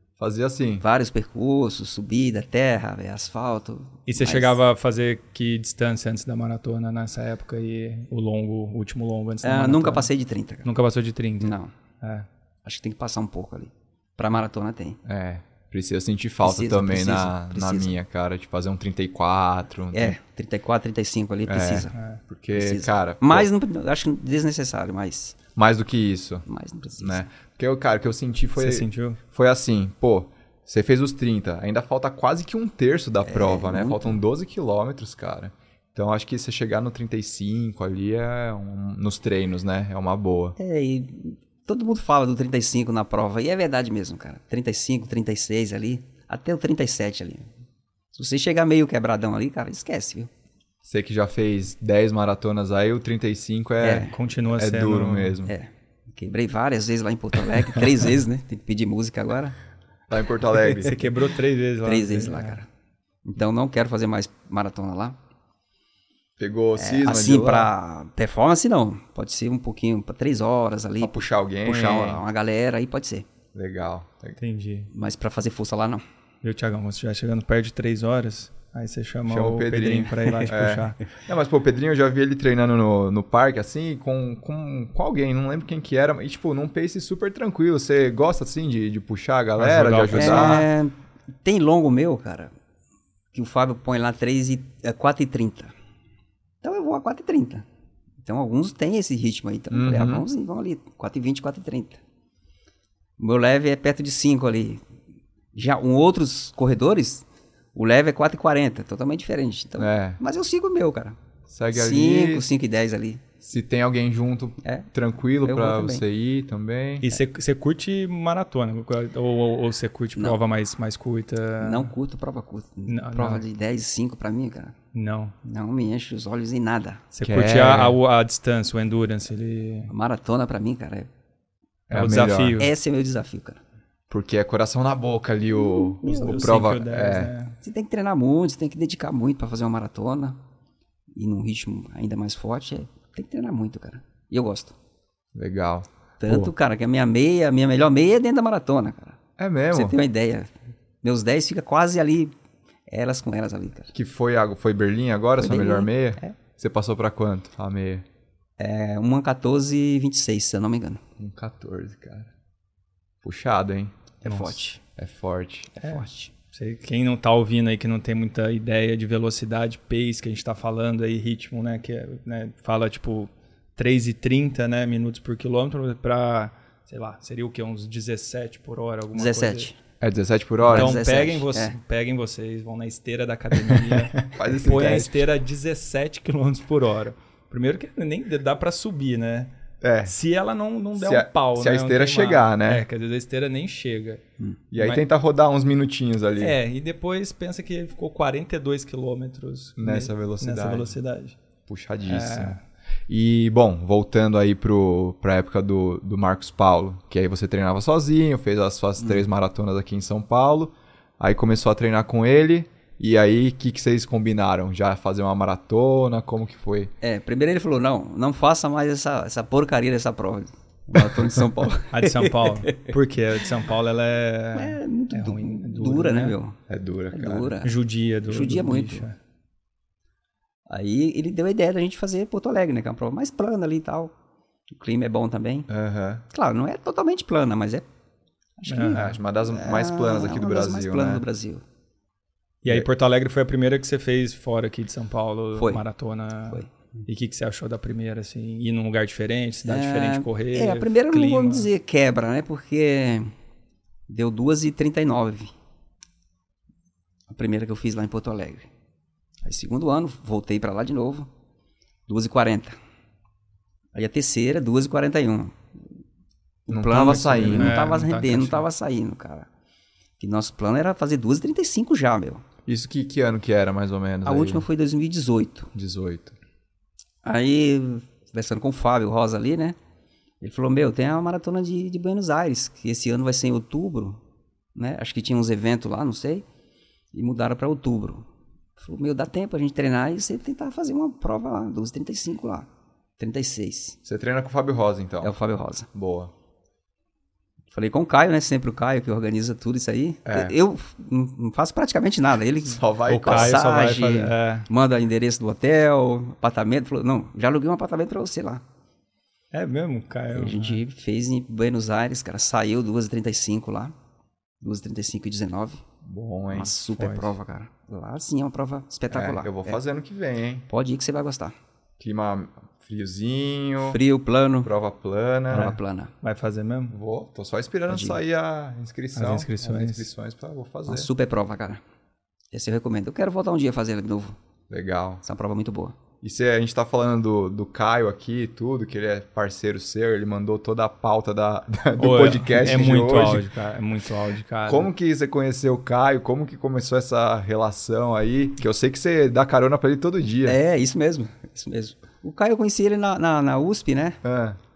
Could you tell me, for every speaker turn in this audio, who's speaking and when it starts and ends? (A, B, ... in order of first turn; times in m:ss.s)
0:00.2-0:00.8 A
0:00.8-0:04.5 B
0:04.1-0:10.1 C
0:09.4-0:10.7 B
0:10.6-0:12.3 C
0:11.4-0:11.7 B
0:12.6-0:15.0 B
0:15.0-0:20.2 A
0:16.4-0:17.9 B
0:19.9-0:21.9 B
0:21.5-0:23.5 A
0:21.9-0:22.2 C
0:22.5-0:25.4 B
0:25.5-0:26.4 A
0:26.5-0:27.3 B
0:27.0-0:40.6 A
0:28.6-0:29.2 C
0:33.2-0:34.2 B
0:40.6-0:47.5 B
0:48.1-0:50.3 B
0:50.8-0:55.5 A
0:53.8-0:54.1 B
0:54.0-0:55.4 C
0:55.4-0:59.6 B
1:00.1-1:01.0 A
1:00.7-1:02.6 C
1:01.8-1:02.6 B
1:03.2-1:05.2 B
1:06.4-1:07.7 A
1:06.8-1:13.3 B
1:11.0-1:12.2 A
1:13.5-1:14.4 A
1:14.4-1:14.9 C
1:14.9-1:16.0 B
1:16.4-1:21.0 C
1:19.3-1:30.7 A
1:29.6-1:30.6 C
1:30.1-1:32.5 B
1:33.3-1:35.7 B
1:36.6-1:37.6 B
1:38.2-1:42.0 B
1:39.7-1:40.2 A
1:43.2-1:44.8 B
1:45.5-1:51.2 B
1:49.8-1:50.2 A
1:51.5-1:52.5 A
1:51.7-1:53.2 B
1:53.4-1:57.0 A
1:54.6-1:54.9 B
1:55.4-1:56.0 B
1:57.0-2:01.9 C
2:01.6-2:04.8 B
2:02.9-2:03.4 C
2:04.9-2:05.3 C
2:05.4-2:07.1 B
2:07.1-2:09.9 C
2:07.2-2:08.0 A
2:09.9-2:11.1 B
2:11.9-2:12.6 A
2:11.9-2:12.7 C
2:12.6-2:13.6 B
2:14.1-2:17.3 A
2:15.9-2:16.4 B
2:16.0-2:17.6 C
2:17.6-2:20.4 B
2:21.1-2:24.7 B
2:25.3-2:26.5 A
2:26.2-2:29.2 B
2:29.4-2:30.0 A
2:29.7-2:30.5 B
2:31.0-2:32.3 B
2:32.9-2:33.9 B
2:33.9-2:38.0 A
2:35.4-2:36.3 B
2:38.6-2:41.0 B
2:41.2-2:42.3 A
2:43.2-2:43.9 A
2:44.2-2:44.8 B
2:44.2-2:44.6 C
2:45.0-2:45.8 A
2:45.8-2:46.3 B
2:45.8-2:59.7 C
2:59.1-2:59.8 B
3:00.0-3:01.0 A
3:00.7-3:01.8 B
3:00.7-3:09.5 C
3:04.2-3:05.2 A
3:09.8-3:10.1 A
3:10.0-3:14.2 C
3:10.9-3:12.8 A
3:14.7-3:16.6 A
3:14.8-3:15.0 C
3:16.4-3:21.4 C
3:19.8-3:20.9 A
3:21.7-3:36.9 A
3:22.0-3:22.6 C
3:37.0-3:42.9 B
3:41.9-3:46.4 C
3:44.5-3:46.6 B
3:46.7-3:47.5 A
3:47.1-3:49.0 B
3:47.6-3:49.2 C
3:50.7-3:54.1 B
3:54.7-3:55.7 B
3:55.7-3:56.2 A
3:56.3-3:57.8 B
3:58.6-4:01.6 B
3:58.7-3:59.1 C
3:58.9-4:01.2 A
4:02.6-4:11.7 C
4:05.6-4:05.8 B
4:09.6-4:13.3 B
4:14.1-4:15.5 B
4:17.3-4:18.7 B
4:19.4-4:21.3 B
4:22.1-4:22.8 B
4:23.9-4:25.6 B
4:26.7-4:29.5 B
4:26.7-4:27.8 A
4:27.2-4:28.6 C
4:30.2-4:32.4 B
4:32.6-4:34.6 A
4:34.2-4:35.7 B
4:35.7-4:36.3 A
4:37.2-4:39.8 B
4:40.4-4:44.2 B
4:44.7-4:46.4 B
4:47.1-4:48.2 B
4:48.8-4:52.7 B
4:53.2-4:54.0 B
4:54.0-4:55.4 A
4:55.2-4:55.9 B
4:55.9-4:56.3 A
4:57.7-5:08.6 B
5:00.2-5:00.5 A
5:02.6-5:03.6 A
5:03.1-5:04.7 C
5:09.5-5:10.8 C
5:10.3-5:13.9 B
5:14.6-5:15.8 B
5:16.0-5:16.7 A
5:16.5-5:19.8 B
5:16.9-5:17.3 C
5:19.1-5:20.6 A
5:20.7-5:21.5 B
5:22.0-5:24.0 A
5:23.8-5:24.7 B
5:24.6-5:25.8 A
5:25.5-5:26.1 B
5:25.5-5:27.0 C
5:26.9-5:31.1 A
5:27.9-5:28.2 B
5:29.1-5:30.1 C
5:30.9-5:31.8 B
5:32.5-5:34.4 B
5:34.7-5:35.2 A
5:35.2-5:36.0 B
5:36.2-5:43.5 A
5:42.0-5:44.9 C
5:44.6-5:50.6 A
5:50.4-5:54.2 B
5:54.2-5:54.6 A